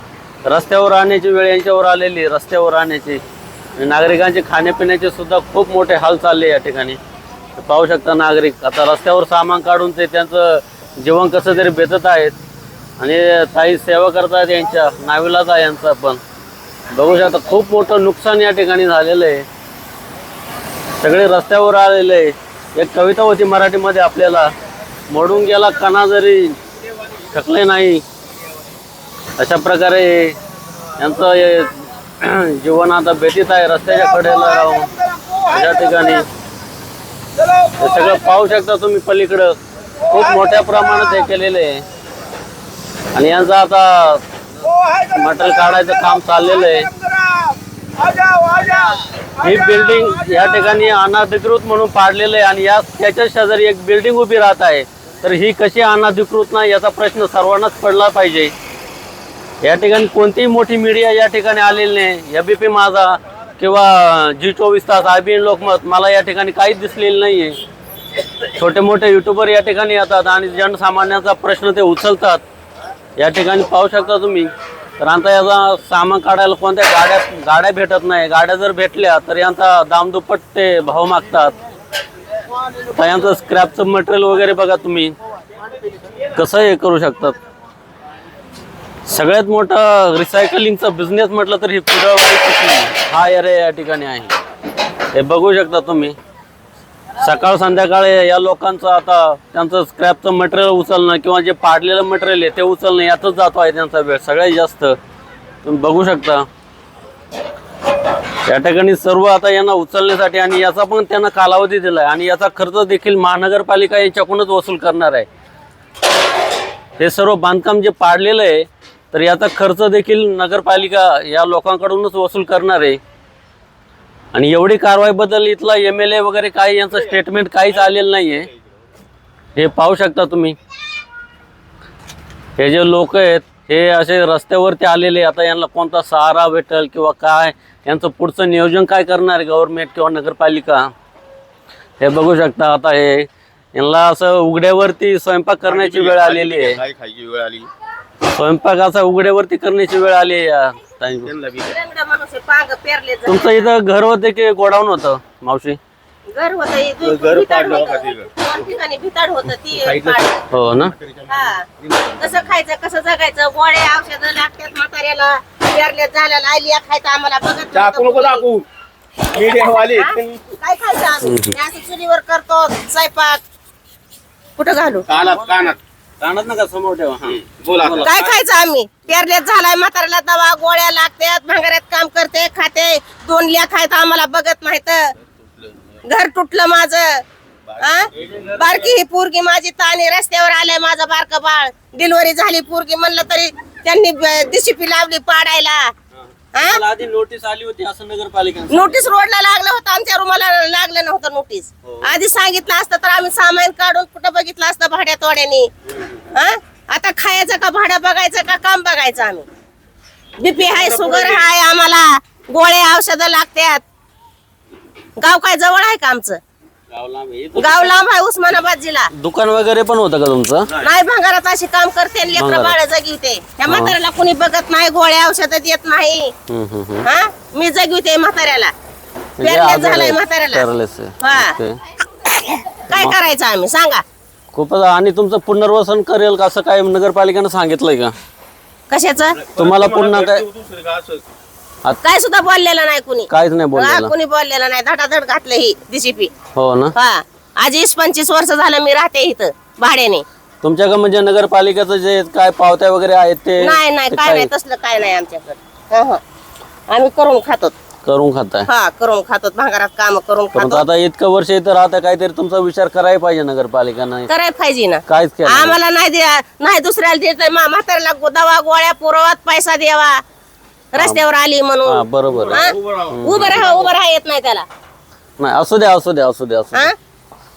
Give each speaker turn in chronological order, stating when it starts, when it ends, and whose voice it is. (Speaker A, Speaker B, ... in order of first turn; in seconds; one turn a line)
Speaker A: 0.4-3.2
Speaker A: 3.8-7.0
Speaker A: 7.6-12.3
Speaker A: 13.0-16.2
Speaker A: 16.9-19.4
Speaker A: 21.0-24.5
Speaker A: 25.1-26.6
Speaker A: 27.3-28.0
Speaker A: 29.4-30.4
Speaker A: 31.0-36.3
Speaker A: 37.7-41.8
Speaker A: 43.1-44.2
Speaker A: 44.9-46.9
Speaker A: 49.4-58.5
Speaker A: 59.6-67.6
Speaker A: 68.5-72.4
Speaker A: 73.2-81.5
Speaker A: 82.9-85.2
Speaker A: 86.3-87.4
Speaker A: 89.1-94.3
Speaker A: 95.1-96.2
Speaker A: 97.2-105.0
Speaker A: 105.6-106.5
Speaker A: 108.4-115.3
Speaker A: 117.0-123.0
Speaker A: 124.3-128.5
Speaker B: 127.8-128.6
Speaker A: 129.6-130.6
Speaker A: 132.6-140.9
Speaker A: 142.0-146.8
Speaker B: 145.6-147.7
Speaker A: 148.2-151.3
Speaker B: 151.2-151.8
Speaker C: 151.7-153.7
Speaker A: 153.2-155.8
Speaker C: 156.3-160.4
Speaker B: 157.0-158.3
Speaker B: 159.7-162.5
Speaker A: 160.5-160.9
Speaker C: 161.3-161.7
Speaker C: 162.2-168.4
Speaker B: 167.7-168.6
Speaker B: 169.3-170.4
Speaker C: 169.7-173.4
Speaker A: 171.2-171.5
Speaker C: 174.6-175.1
Speaker B: 175.1-175.8
Speaker A: 175.1-175.5
Speaker A: 176.2-178.4
Speaker B: 177.3-178.2
Speaker C: 178.0-185.1
Speaker C: 186.0-187.2
Speaker B: 187.7-188.7
Speaker C: 187.8-195.9
Speaker A: 188.2-188.6
Speaker C: 196.5-196.8
Speaker A: 196.6-199.0
Speaker C: 198.7-205.7
Speaker C: 206.3-209.4
Speaker C: 210.4-213.8
Speaker B: 210.6-211.5
Speaker C: 215.2-216.4
Speaker A: 216.9-218.0
Speaker C: 217.6-219.1
Speaker A: 219.1-220.8
Speaker C: 220.8-226.3
Speaker A: 222.3-222.8
Speaker A: 223.7-223.9
Speaker A: 226.5-227.1
Speaker C: 227.0-228.7
Speaker A: 229.4-231.8
Speaker C: 229.4-230.6
Speaker C: 231.2-231.5
Speaker C: 232.8-234.0
Speaker A: 232.9-233.1
Speaker A: 234.5-238.1
Speaker C: 238.9-239.4
Speaker B: 239.3-241.3
Speaker A: 239.6-240.4
Speaker C: 242.0-246.3
Speaker A: 243.3-244.1
Speaker A: 246.5-246.9
Speaker C: 246.9-250.2
Speaker A: 250.6-254.5
Speaker C: 253.6-256.2
Speaker C: 256.9-257.7
Speaker A: 258.0-258.7
Speaker C: 258.7-260.8
Speaker A: 260.5-264.3
Speaker C: 264.3-270.2
Speaker A: 265.1-265.8
Speaker C: 270.9-274.6
Speaker A: 270.9-271.2
Speaker A: 271.8-273.7
Speaker B: 272.3-273.9
Speaker A: 275.4-276.9